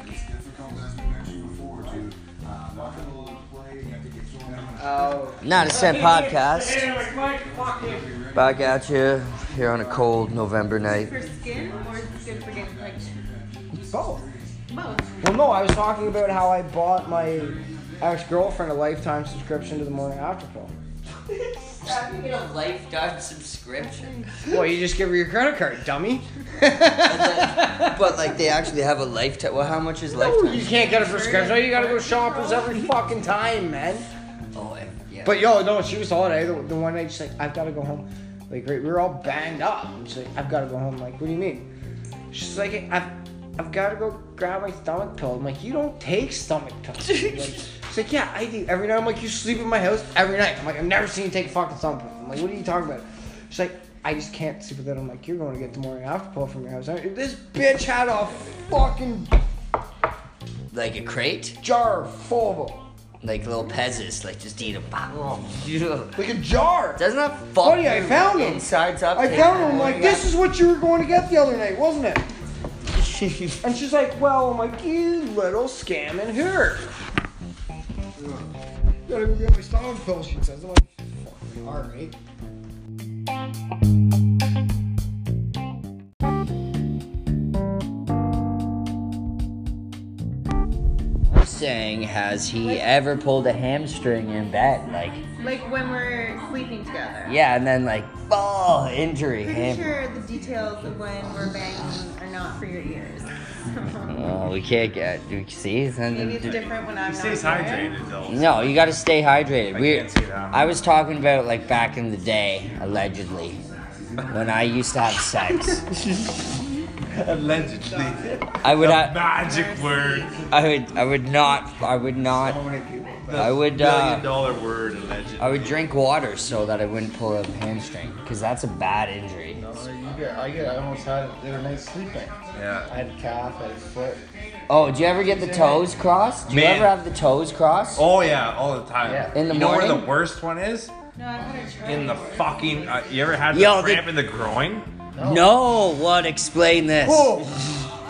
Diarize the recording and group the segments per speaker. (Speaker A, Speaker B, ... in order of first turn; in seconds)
Speaker A: 4.4-5.3, 78.2-78.5, 122.3-123.6, 129.5-134.2, 139.0-139.3, 145.1-145.6, 147.0-147.9
Speaker B: 4.7-8.2, 13.7-14.3, 15.2-20.7, 24.5-28.6, 30.1-34.1, 35.2-41.7, 42.3-59.4, 61.6-62.8, 66.1-67.0, 67.6-72.3, 73.6-76.9, 79.0-82.1, 135.2-135.9
Speaker C: 5.4-6.9, 8.3-11.1, 21.3-24.3, 27.0-30.7, 34.5-35.4, 60.7-61.6, 63.2-66.3, 66.9-70.3, 72.9-73.6, 91.2-95.2, 97.2-100.0, 104.1-106.6, 108.3-113.6, 114.3-115.9, 118.6-119.2, 120.5-122.6, 123.3-124.2, 125.4-129.6, 134.7-138.1, 139.3-140.1, 143.5-144.1, 145.2-147.4
Speaker D: 10.8-13.1, 14.7-15.4, 30.5-33.0, 92.6-92.9, 95.4-97.4, 99.4-104.1, 106.1-108.0, 119.3-120.5, 141.2-143.4
Speaker E: 106.4-108.8, 109.7-110.8, 117.1-120.4, 123.3-125.8, 132.5-132.9, 136.5-136.9, 137.9-140.9, 141.8-144.9